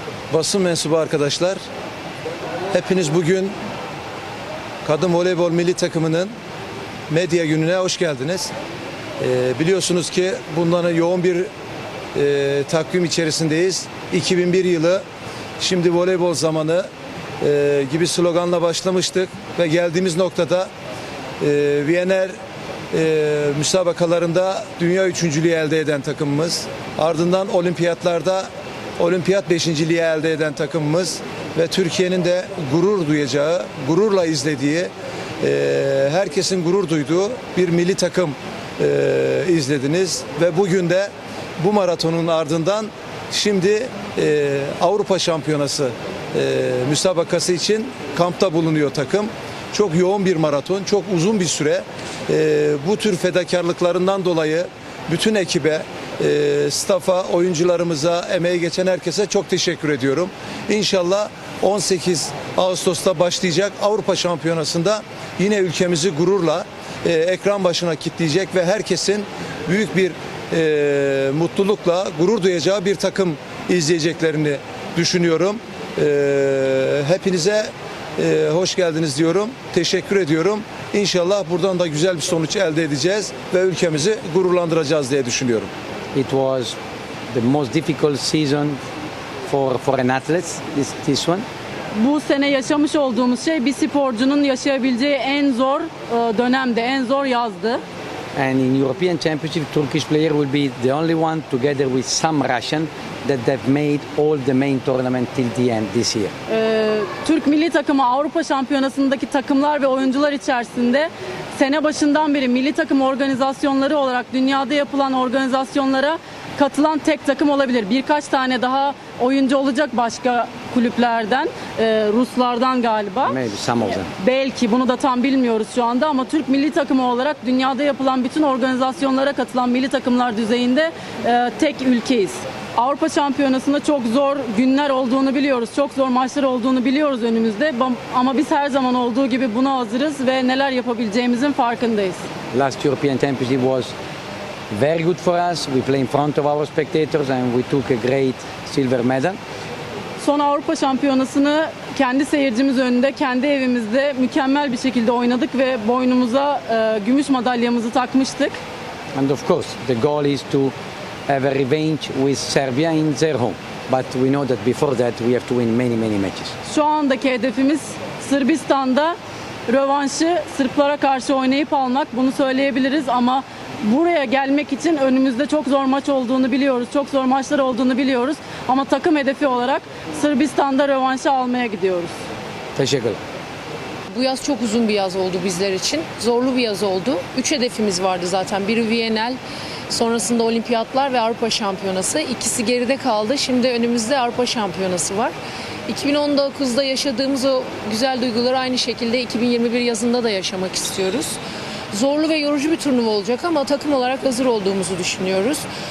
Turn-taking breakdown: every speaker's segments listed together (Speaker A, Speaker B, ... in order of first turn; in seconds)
Speaker A: 0.3-1.6, 2.7-3.5, 4.8-6.3, 7.1-8.5, 9.2-11.5, 12.1-15.0, 15.6-16.9, 17.4-20.7, 21.4-22.4, 22.9-85.7
Speaker B: 86.1-86.8, 87.3-88.8, 89.5-91.4, 98.3-106.3, 123.2-124.1, 142.5-143.9, 144.7-149.4, 159.1-160.7, 161.3-166.5, 182.8-183.2
Speaker C: 91.9-97.8, 106.5-123.4, 124.0-142.2, 150.2-158.6, 166.7-169.2, 169.7-182.1
Speaker D: 184.1-189.4, 189.9-195.3, 195.9-201.4, 201.9-205.6